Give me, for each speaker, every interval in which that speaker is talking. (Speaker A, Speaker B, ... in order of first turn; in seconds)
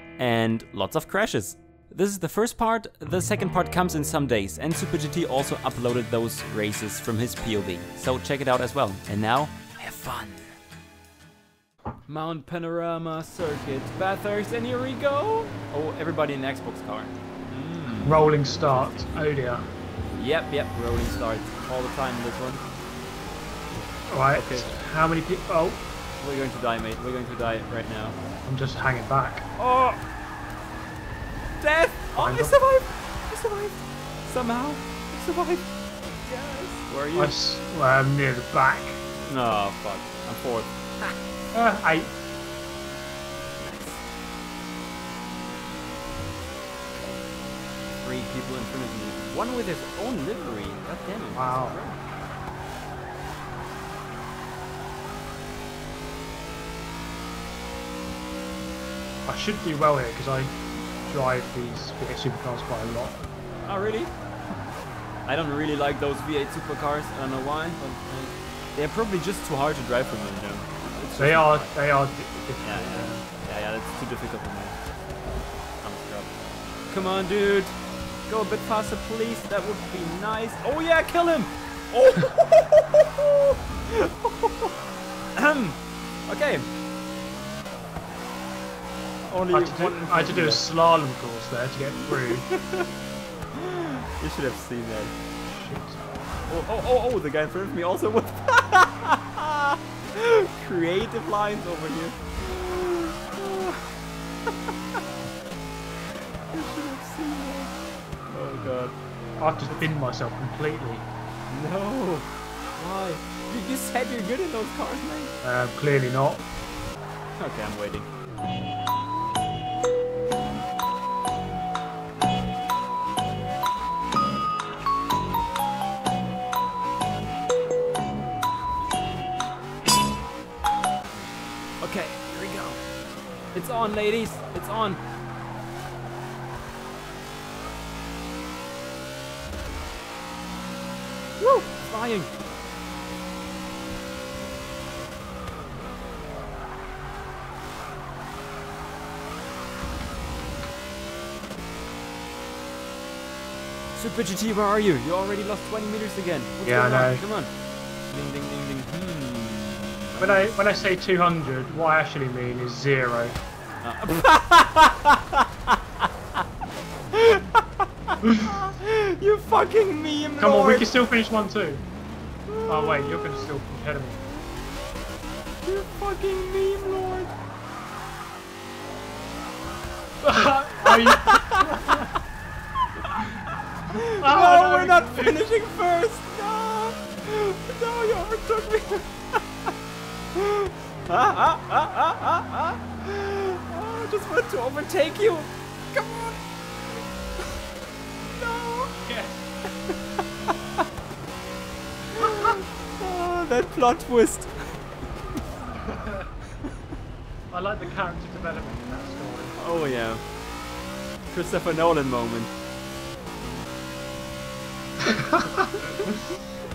Speaker A: 0.2-10.5, 12.1-19.1, 20.2-22.6, 24.3-24.7, 26.2-28.2, 29.6-30.0, 31.6-35.6, 36.2-37.4, 39.3-41.1, 43.6-44.0, 48.0-52.0, 63.6-64.1, 65.3-71.7, 72.6-74.8, 75.8-76.3, 76.9-77.7, 78.3-84.7, 85.4-86.7, 89.2-90.6, 92.1-92.9, 93.5-95.1, 96.5-105.0, 106.5-107.7, 108.3-108.9, 111.5-115.3, 117.4-118.1, 131.8-132.8, 133.5-135.0, 141.4-142.3, 153.9-157.5, 158.1-160.9, 163.8-165.7, 167.1-170.9, 172.5-173.3, 175.6-177.3, 180.9-181.9, 183.9-189.7, 190.3-197.1, 198.2-198.9, 202.1-204.8, 209.6-210.2, 211.3-212.5
Speaker B: 18.0-19.6, 24.1-25.8, 28.4-29.4, 32.2-32.5, 37.1-39.0, 41.5-42.1, 51.3-51.8, 59.2-60.5, 61.1-63.2, 71.2-73.2, 89.5-92.5, 95.5-96.0, 109.4-111.1, 115.4-116.4, 156.6-157.2, 160.2-163.4, 168.2-168.5, 170.4-171.8, 172.7-174.2, 180.2-182.1, 184.2-185.4, 199.0-199.4, 202.2-202.6, 205.8-206.3, 207.5-209.6, 215.1-215.7